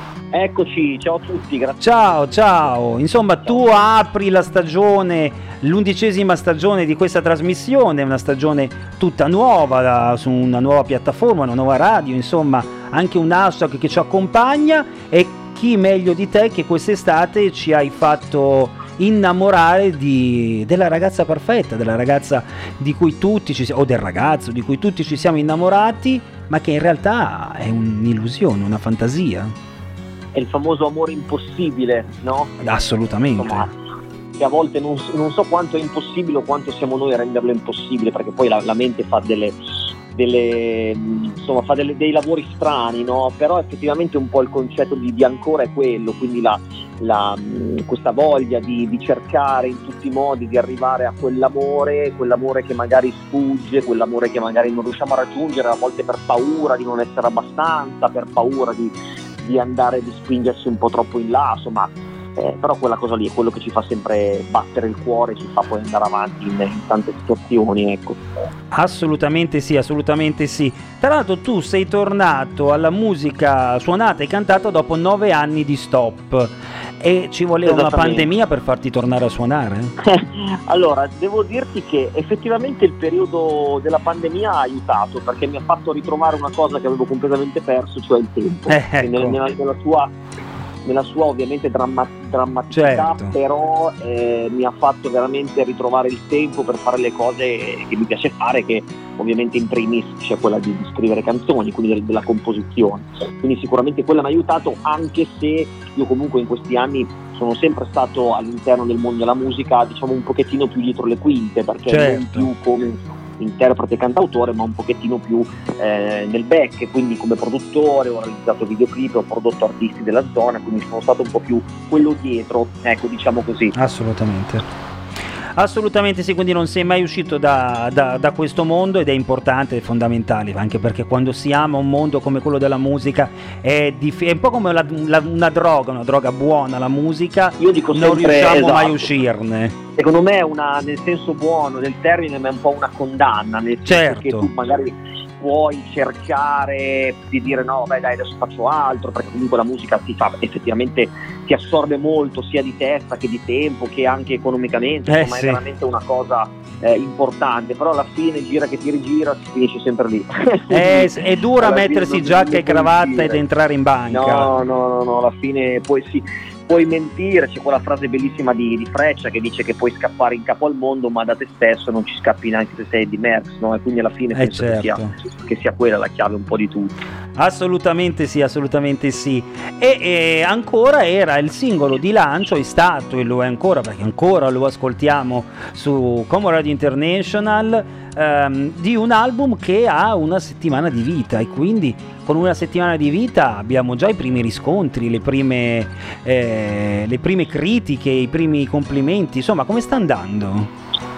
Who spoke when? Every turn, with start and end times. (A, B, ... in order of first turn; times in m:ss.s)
0:00.3-0:02.7 A
0:01.8-0:29.5 B
0:03.4-0:03.8 A
0:30.3-0:32.6 A
0:32.6-0:33.7 B
0:33.4-0:33.7 A
0:34.4-0:39.6 A
0:40.1-1:08.2 A
1:08.7-1:19.9 B
1:17.6-1:18.3 A
1:20.0-1:30.1 A
1:28.7-1:29.4 B
1:30.8-2:03.7 A
1:32.7-1:33.3 B
1:51.9-1:52.5 B
2:03.7-2:04.6 B
2:05.6-2:19.7 B
2:17.6-2:19.1 A
2:20.0-2:43.4 A
2:23.8-2:24.5 B
2:35.1-2:35.6 B
2:40.7-2:44.5 B
2:44.1-2:57.0 A
2:54.3-2:55.1 B
2:57.4-3:20.7 B